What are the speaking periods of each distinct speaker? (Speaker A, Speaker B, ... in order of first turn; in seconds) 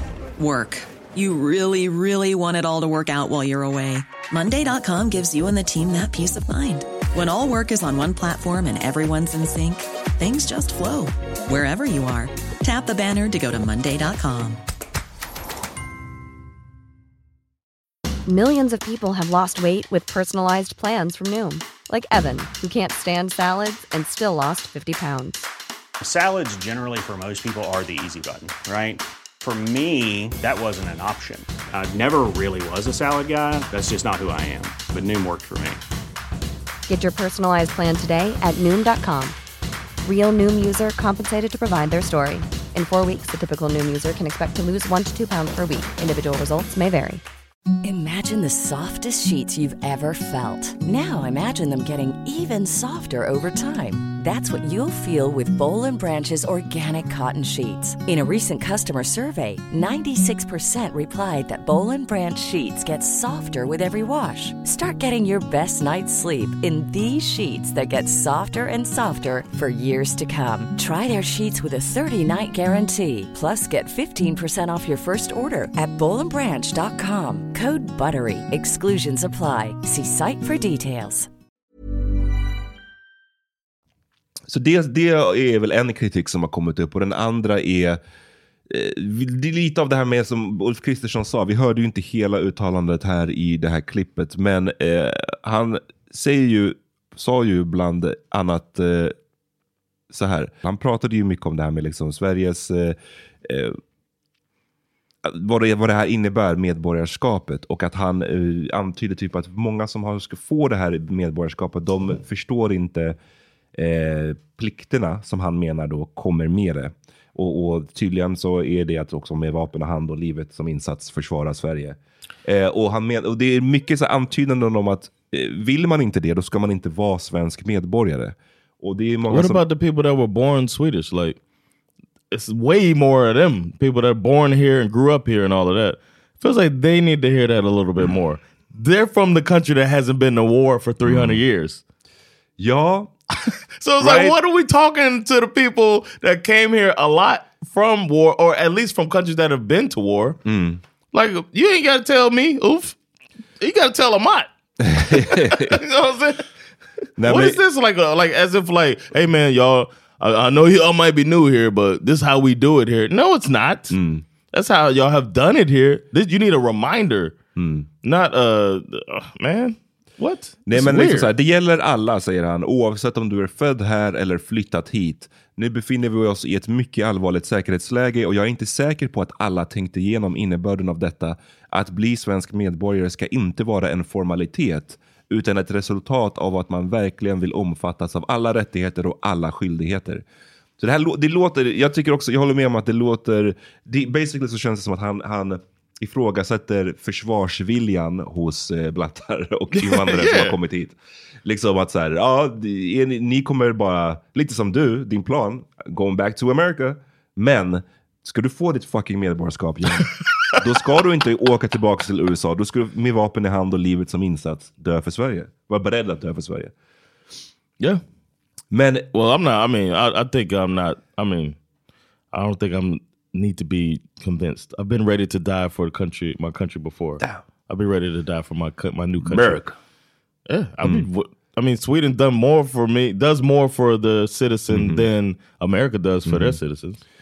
Speaker A: 0.4-14.6
Speaker B: 18.3-25.5, 36.9-39.4, 40.0-47.2
Speaker C: 26.0-35.8
Speaker D: 47.8-81.3
Speaker E: 84.5-88.0, 88.7-99.1, 100.1-103.8, 105.2-113.2, 113.8-129.6, 141.0-141.4, 142.6-143.1, 144.0-144.3, 150.4-150.8, 154.8-155.8, 157.2-157.6, 163.9-164.2, 167.6-167.9, 170.7-190.2, 190.8-216.7, 218.7-219.1, 229.2-229.7, 234.7-235.1, 236.2-236.6
Speaker F: 129.3-131.4, 132.3-141.8, 143.8-150.4, 151.1-152.9, 153.6-154.5, 155.3-156.4, 157.2-164.0, 164.5-167.3, 168.0-171.3, 199.7-200.6, 219.1-221.6, 222.3-229.6, 230.5-237.0